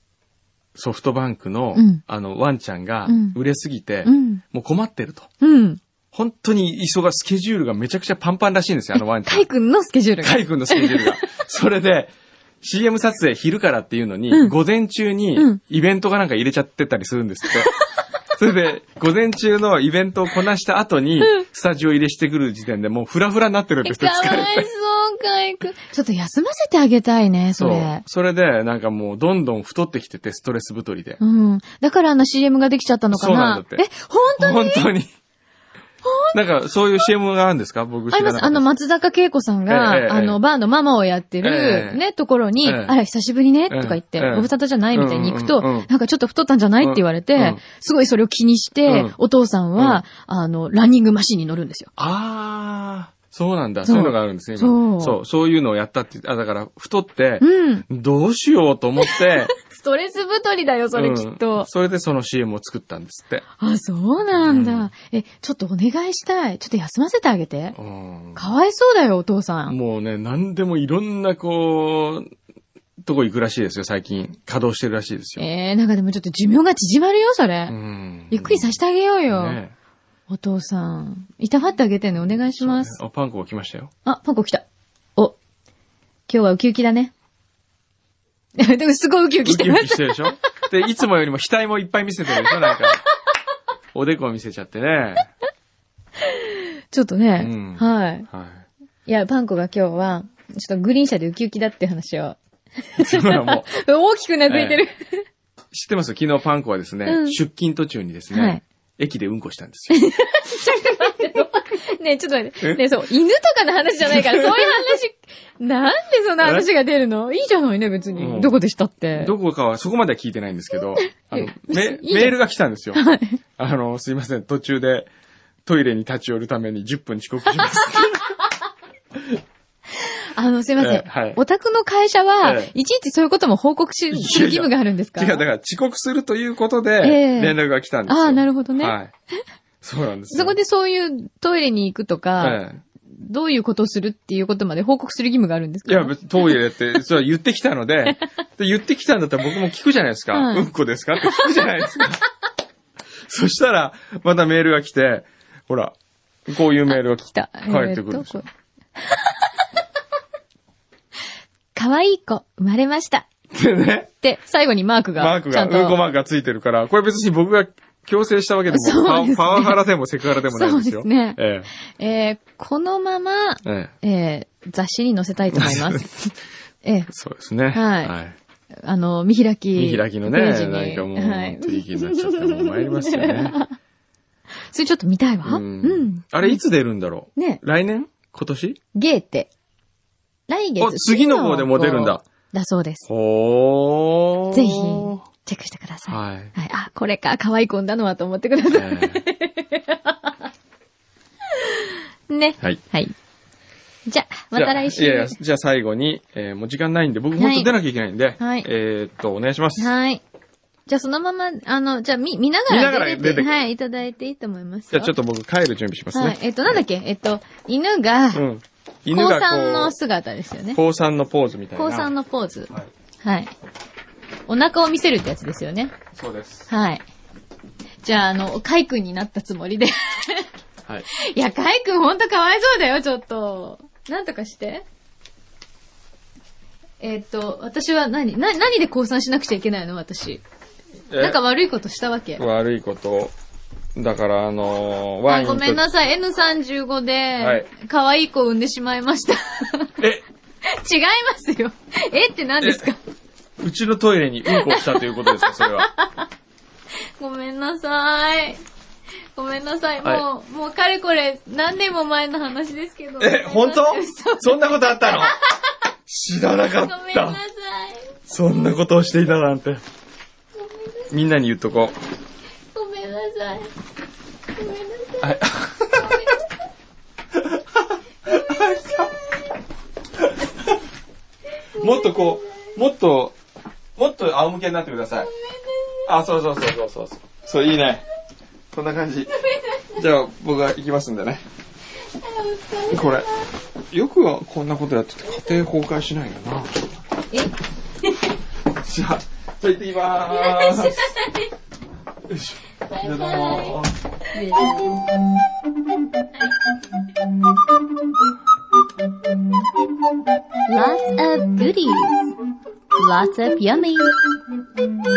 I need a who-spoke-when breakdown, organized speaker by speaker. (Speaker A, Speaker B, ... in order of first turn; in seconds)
Speaker A: 0.8-5.3, 6.1-9.5, 10.2-17.7, 18.3-24.7, 27.5-31.2, 33.1-35.1, 36.3-38.7, 39.7-40.4, 41.4-42.0, 42.6-43.0, 43.7-45.9, 46.8-47.6, 48.9-49.2, 49.8-50.0, 52.0-59.5, 60.9-63.4, 64.3-64.9, 67.7-68.5, 69.7-72.3, 73.0-75.5, 77.7-79.7, 82.5-83.9, 89.4-93.0, 93.9-95.3, 97.4-98.7, 103.0-103.7, 104.5-104.8, 105.7-110.0, 112.6-112.9, 114.0-114.8, 116.4-116.7, 118.1-118.6, 119.1-123.0, 123.6-125.1, 125.7-128.2, 130.8-131.4, 132.4-132.7, 134.1-139.1, 139.8-140.6, 142.4-142.8, 145.8-152.2, 153.3-155.9, 156.5-158.4, 163.5-164.1, 165.2-171.7, 173.6-173.9, 175.5-176.1, 177.1-178.3, 179.7-183.6, 185.4-188.8, 190.8-192.2, 193.1-195.2, 196.1-196.5, 198.7-199.2, 204.5-209.9, 212.7-213.5, 214.9-216.4, 218.3-219.9, 220.7-222.1, 226.1-226.7, 241.1-241.4, 242.4-243.3, 243.9-245.8, 247.4-247.7, 252.6-252.9, 253.6-255.9, 263.2-265.4, 266.1-267.4, 268.3-269.8, 271.1-271.9, 275.2-276.2, 277.3-277.6, 278.2-279.1, 281.8-283.4, 283.9-285.3, 286.1-288.0, 288.7-291.4, 292.9-293.3, 293.9-296.9, 298.7-301.1, 302.3-303.9
Speaker B: 1.7-2.0, 3.1-3.4, 4.0-4.4, 5.4-5.8, 8.9-11.2, 14.3-14.6, 23.8-28.0, 31.2-34.9, 36.0-36.4, 38.1-51.9, 53.8-55.2, 57.4-57.8, 59.0-61.7, 63.6-67.8, 68.3-69.8, 75.4-77.8, 78.3-79.6, 80.3-83.0, 84.0-84.6, 86.3-87.1, 88.6-90.3, 92.3-92.8, 96.2-98.3, 99.0-105.2, 107.0-107.4, 108.3-108.6, 109.9-119.3, 120.9-122.4, 122.9-123.4, 127.7-128.2, 130.3-135.4, 137.0-139.0, 140.3-146.6, 150.3-152.1, 156.9-158.5, 161.7-163.3, 164.2-166.0, 168.7-169.8, 170.4-177.1, 177.7-178.1, 178.8-183.7, 184.7-186.6, 187.3-187.6, 188.9-189.5, 190.5-193.1, 194.5-200.3, 201.7-203.1, 204.1-205.4, 207.3-207.7, 208.4-208.7, 209.8-210.2, 210.9-215.1, 216.1-218.4, 219.1-220.8, 221.8-223.5, 224.4-225.9, 226.7-227.0, 228.0-230.5, 231.1-234.8, 237.0-240.4, 241.1-242.4, 245.2-249.9, 250.7-253.0, 254.5-256.2, 257.2-258.6, 259.3-265.4, 266.8-268.1, 272.7-273.7, 274.6-275.4, 276.0-276.3, 281.7-282.5, 285.3-286.0, 292.1-293.5, 300.2-301.4, 302.9-303.8, 304.3-305.0, 310.7-312.2, 312.9-314.2